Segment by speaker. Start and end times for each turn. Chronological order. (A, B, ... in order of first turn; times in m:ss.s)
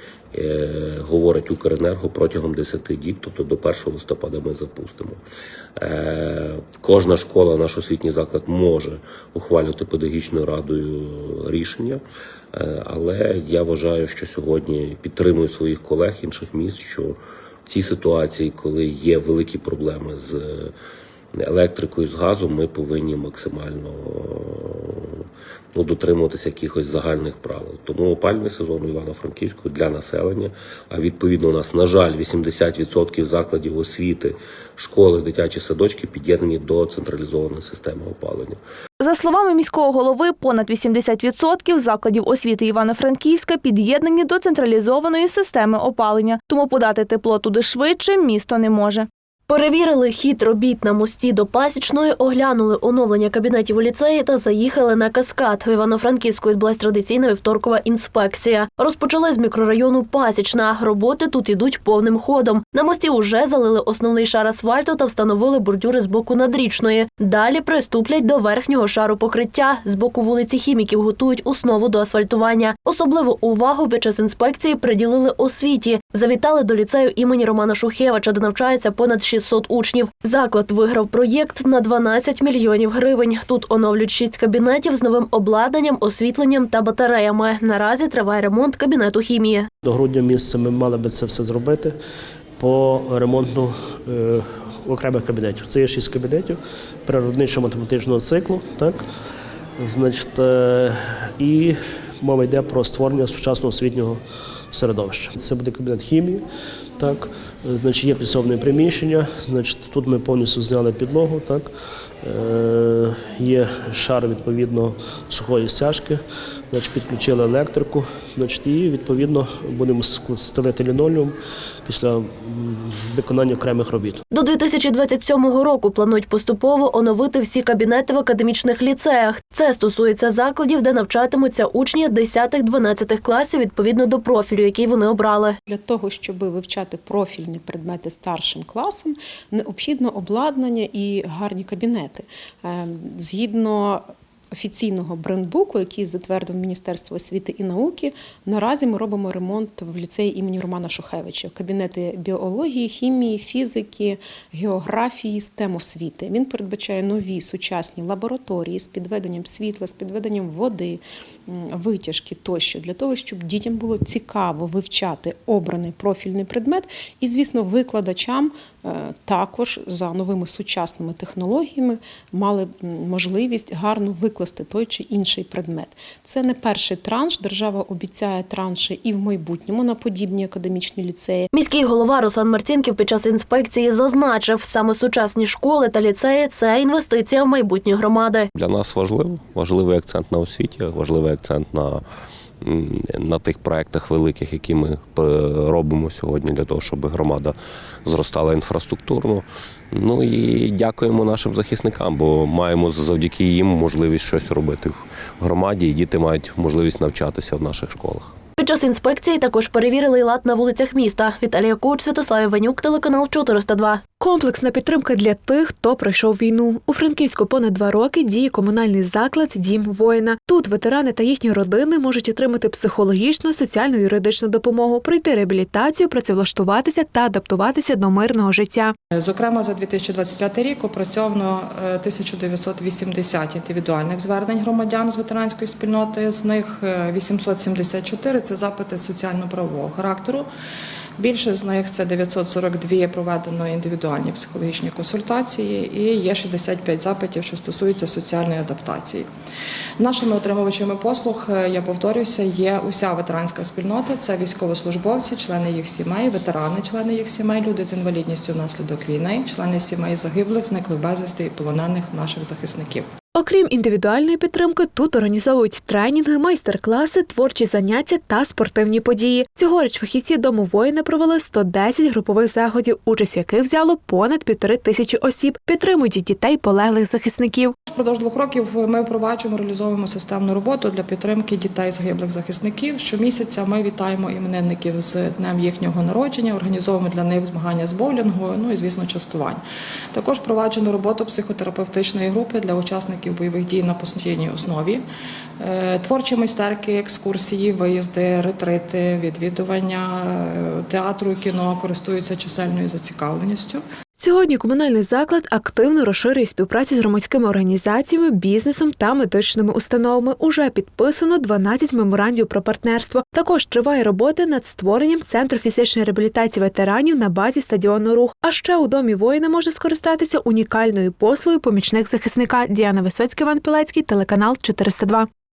0:00.3-0:05.2 A
0:05.8-0:12.0 A
0:12.5-0:20.7 A
0:21.4-0:25.2 A
0:25.8-0:38.6 A
0:39.0-0:49.1 B
0:49.5-1:29.7 C
1:29.8-1:32.0 D
1:32.6-1:39.0 D
1:39.8-1:44.2 D
1:44.7-1:46.4 D
1:47.0-1:51.7 D
1:52.2-2:01.3 D
2:01.8-2:04.2 D
2:04.3-2:15.6 C
2:15.7-3:01.5 E
3:01.5-3:08.5 C
3:08.6-3:12.0 A
3:12.6-3:28.4 A
3:28.6-3:34.0 C
3:34.2-3:49.0 F
3:49.1-4:00.5 G
4:01.2-4:09.3 G
4:10.0-4:23.1 G
4:23.4-4:37.8 F
4:37.9-4:49.6 G
4:50.1-4:55.0 G
4:55.6-5:03.8 G
5:04.2-5:25.3 F